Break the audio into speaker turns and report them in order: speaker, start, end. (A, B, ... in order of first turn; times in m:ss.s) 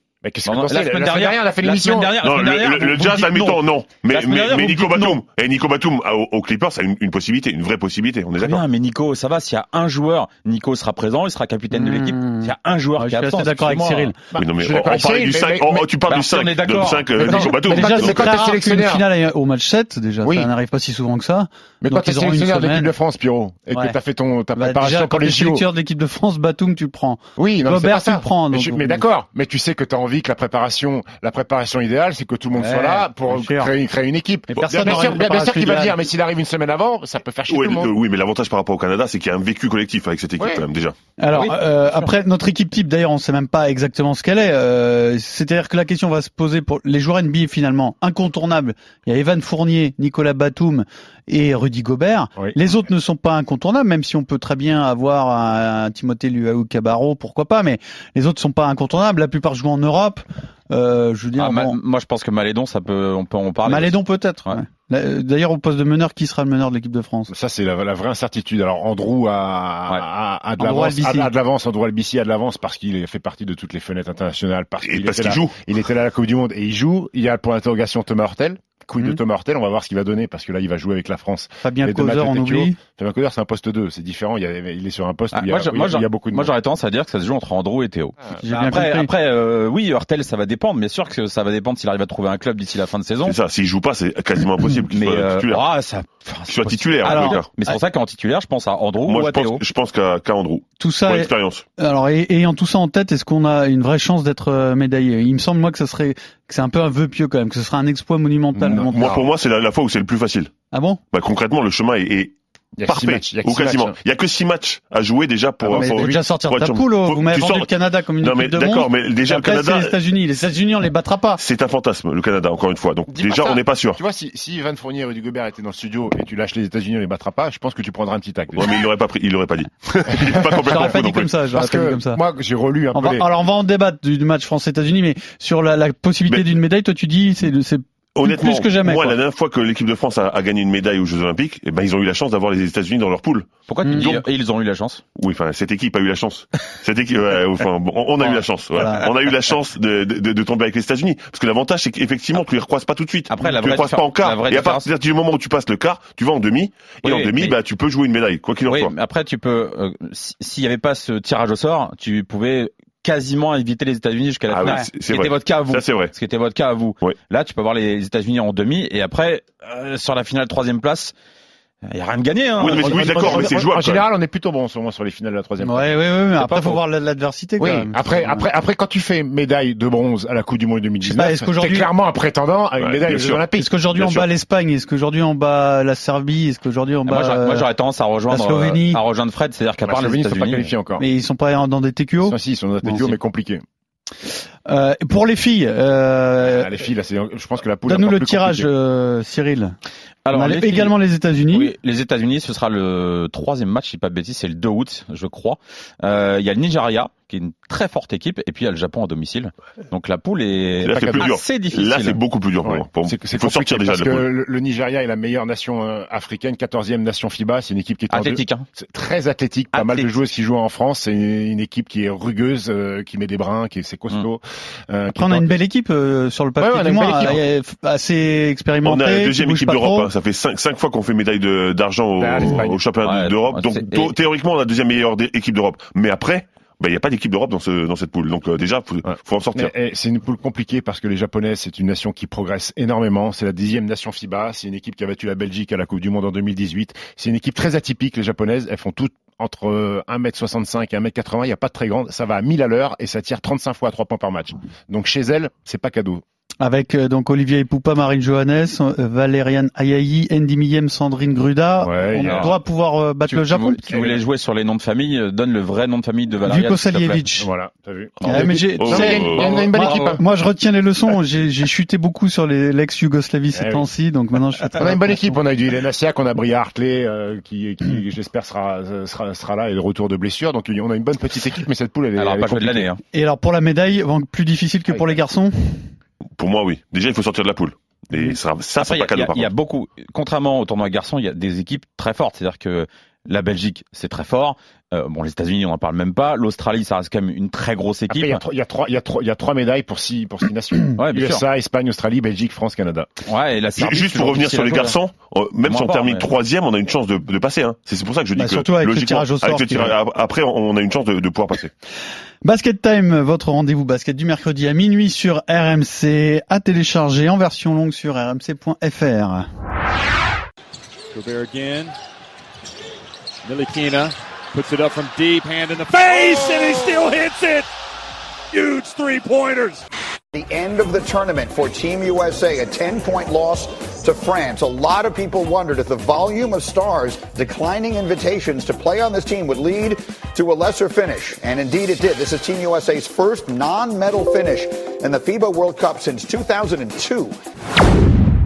0:00.2-0:02.2 A
0:00.4-0:05.2 B
0:02.2-0:08.6 C
0:08.4-0:14.1 B
0:11.7-0:14.2 D
0:14.3-0:15.9 A
0:14.4-0:18.3 C
0:16.1-0:17.4 B
0:17.2-0:19.0 A
0:17.6-0:22.9 D
0:20.2-0:20.5 A
0:21.8-0:25.7 A
0:23.7-0:24.0 D
0:24.6-0:29.0 D
0:27.4-0:37.9 A
0:32.6-0:33.7 D
0:34.5-0:36.0 D
0:37.5-0:41.0 C
0:40.4-0:40.6 A
0:41.2-1:01.8 D
0:41.3-0:42.1 B
1:01.4-1:04.6 B
1:03.7-1:07.3 D
1:07.3-1:26.5 A
1:10.6-1:11.3 D
1:14.8-1:15.6 C
1:21.6-1:22.8 D
1:25.3-1:33.4 B
1:28.4-1:29.1 D
1:33.2-1:35.6 C
1:34.9-1:39.6 B
1:36.5-1:37.5 C
1:37.0-1:37.4 D
1:39.1-1:41.6 C
1:40.8-1:49.1 D
1:48.6-1:49.3 A
1:48.6-1:50.5 C
1:50.7-1:51.0 D
1:51.1-1:52.4 C
1:52.8-1:54.0 A
1:52.9-2:00.0 C
1:55.6-1:56.2 A
1:55.7-2:01.4 D
2:01.4-2:04.0 C
2:03.1-2:08.8 A
2:08.6-2:11.3 C
2:10.2-2:11.0 A
2:10.6-2:12.2 D
2:11.5-2:13.3 A
2:12.9-2:19.2 D
2:18.2-2:24.2 C
2:23.7-2:25.0 B
2:23.8-2:24.2 D
2:25.2-2:38.9 C
2:28.8-2:29.1 D
2:33.3-2:34.9 B
2:37.0-2:37.6 B
2:38.7-2:51.1 B
2:44.5-2:46.1 C
2:44.6-2:44.9 D
2:51.9-2:53.2 B
2:52.6-2:54.0 C
2:52.6-2:56.0 A
2:55.6-2:58.4 D
2:56.4-2:56.8 B
2:57.6-3:03.7 A
3:01.0-3:01.9 D
3:02.8-3:03.4 C
3:03.6-3:07.7 D
3:04.0-3:04.3 C
3:07.1-3:10.7 B
3:08.3-3:09.0 D
3:09.8-3:11.0 A
3:11.0-3:13.0 D
3:12.2-3:13.6 A
3:14.7-3:16.7 D
3:16.4-3:18.7 A
3:17.9-3:19.8 D
3:20.2-3:21.0 B
3:20.3-3:21.7 D
3:21.5-3:32.2 B
3:30.8-3:34.3 C
3:32.6-3:45.5 A
3:38.1-3:38.7 B
3:39.7-3:40.2 B
3:45.2-3:50.1 D
3:46.6-3:47.4 A
3:48.8-3:59.7 C
3:52.2-3:52.8 A
3:53.0-3:54.1 B
3:59.1-4:16.2 A
4:16.6-4:23.9 D
4:21.8-4:22.5 A
4:22.2-4:22.5 B
4:23.3-4:27.2 B
4:23.9-4:24.2 A
4:26.5-4:27.5 D
4:27.4-4:30.2 A
4:28.2-4:35.4 D
4:28.8-4:29.6 C
4:33.5-4:33.9 A
4:34.7-4:42.9 A
4:42.2-4:43.0 B
4:43.1-4:45.9 D
4:46.4-4:49.5 C
4:48.8-4:58.4 B
4:58.1-5:03.1 A
5:01.0-5:01.4 B
5:03.3-5:05.0 B
5:03.8-5:11.7 C
5:05.6-5:06.3 B
5:08.4-5:10.0 D
5:12.4-5:19.5 D
5:21.1-5:22.0 E
5:23.4-5:27.7 E
5:28.5-5:29.8 E
5:30.3-5:47.4 F